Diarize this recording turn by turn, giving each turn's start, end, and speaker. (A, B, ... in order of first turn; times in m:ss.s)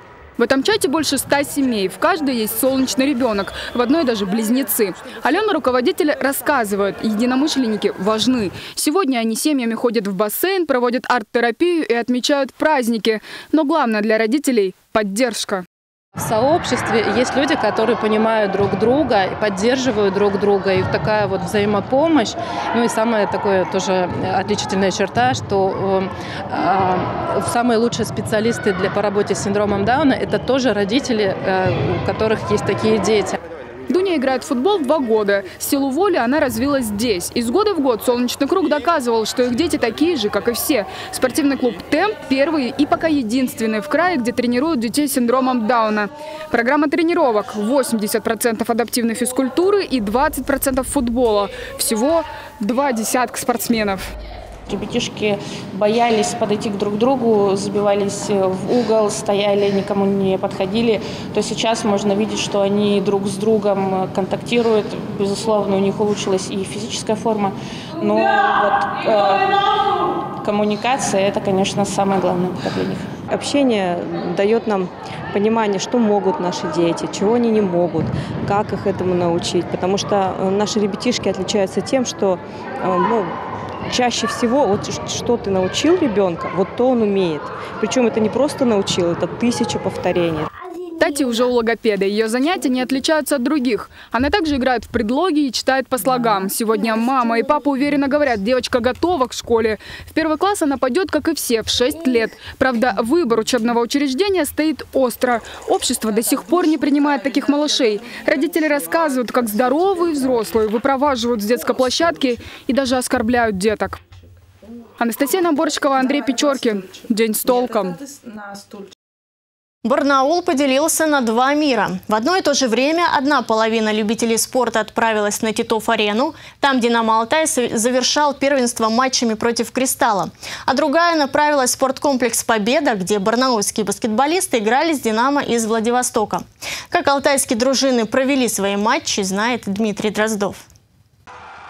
0:00.4-0:15.6 A
0:16.2-0:33.4 B
0:33.9-0:54.0 A
0:54.7-1:09.5 C
1:10.4-1:13.3 C
1:13.3-1:23.3 D
1:16.7-1:17.0 C
1:23.9-1:30.5 D
1:31.0-1:54.0 A
1:55.0-1:58.0 A
1:59.8-2:20.7 E